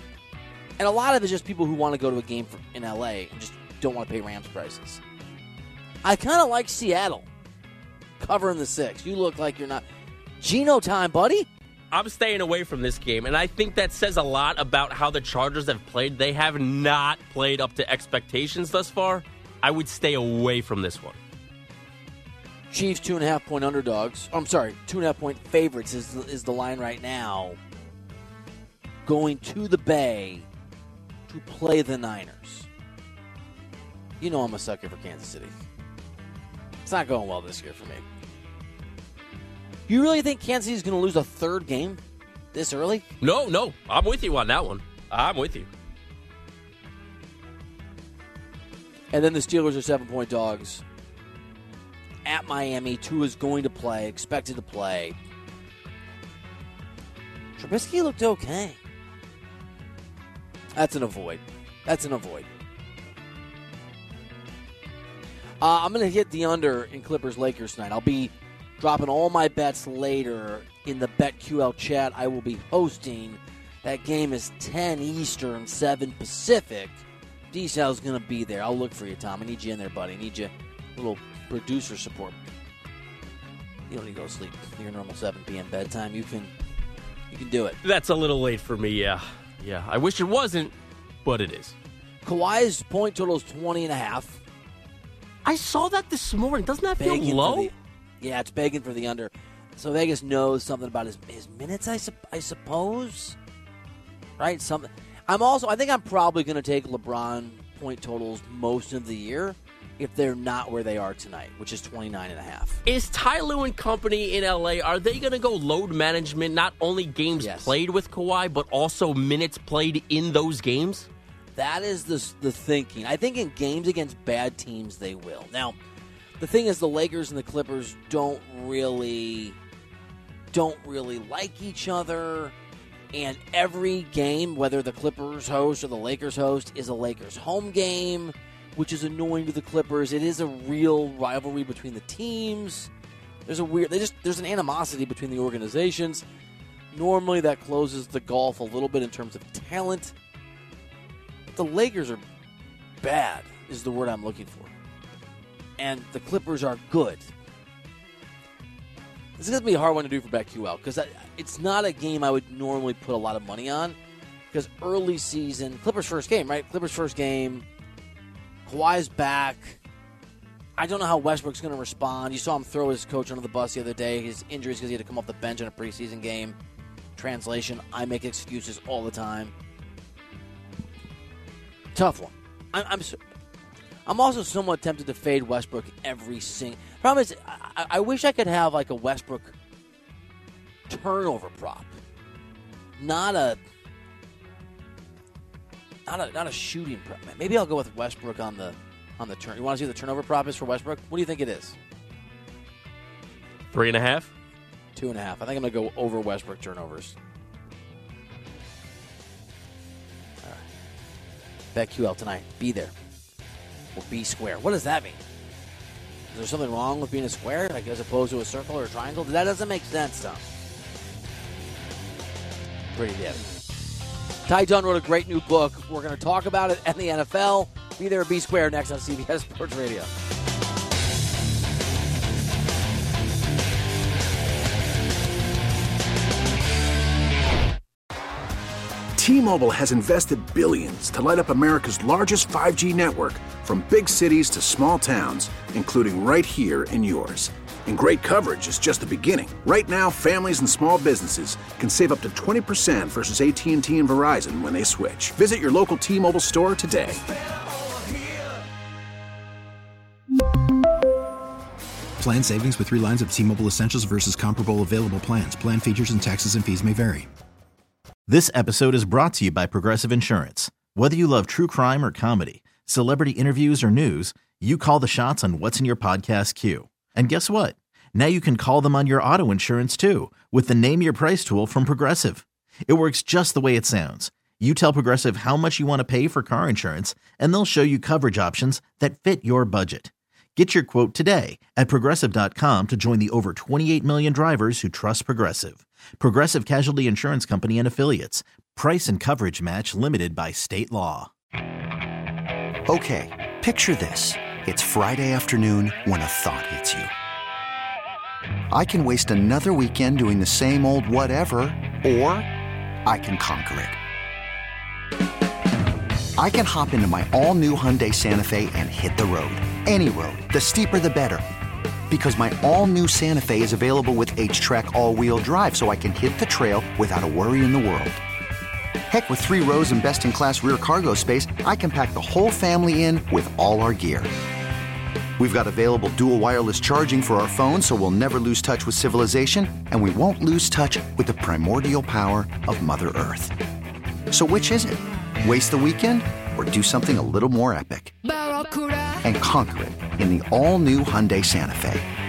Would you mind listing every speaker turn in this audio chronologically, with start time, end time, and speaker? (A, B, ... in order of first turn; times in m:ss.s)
0:00.8-0:05.0 A
0:06.0-0:07.3 A
0:08.2-0:09.8 A
0:10.4-0:11.5 A
0:11.9-0:21.2 B
0:22.7-0:27.6 A
0:29.0-0:30.4 A
0:31.3-0:32.7 A
0:34.2-0:35.5 A
0:36.8-0:38.0 A
0:39.9-0:42.0 A
0:42.5-0:43.1 A
0:43.2-0:45.7 B
0:49.1-0:50.8 A
0:52.2-0:55.2 A
0:57.6-0:58.8 A
1:00.7-1:02.5 A
1:05.6-1:22.4 A
1:23.9-1:26.5 A
1:27.3-1:27.8 A
1:27.8-1:30.7 B
1:31.2-1:31.7 B
1:32.2-1:34.4 A
1:35.4-1:37.7 B
1:37.0-1:43.4 A
1:44.4-1:52.8 A
1:52.9-2:01.1 B
1:57.4-1:57.7 A
2:01.6-2:05.8 A
2:06.4-2:09.6 A
2:10.5-2:12.5 A
2:13.1-2:22.9 A
2:23.4-2:26.2 A
2:26.9-2:30.1 A
2:31.5-2:32.2 A
2:33.0-2:34.7 A
2:35.8-2:37.3 A
2:39.4-2:44.0 A
2:44.5-2:47.7 A
2:48.7-2:49.8 A
2:50.8-2:56.6 A
2:57.2-2:59.5 A
3:01.9-3:03.2 A
3:04.0-3:09.6 A
3:10.9-3:11.9 A
3:13.0-3:13.6 A
3:16.1-3:21.8 A
3:23.7-3:24.3 B
3:25.0-3:27.2 A
3:31.7-3:32.9 A
3:33.9-3:35.2 A
3:36.3-3:40.5 A
3:42.9-3:43.4 A
3:44.4-3:50.1 A
3:59.2-4:17.2 C
4:22.2-4:27.3 D
4:28.3-5:01.3 E
5:02.9-5:07.1 F
5:08.7-5:12.5 F
5:13.0-5:14.0 F
5:16.4-5:21.4 F
5:22.1-5:28.2 F
5:29.1-5:34.3 F
5:35.4-5:43.6 F
5:44.3-5:48.1 F
5:49.2-5:52.1 F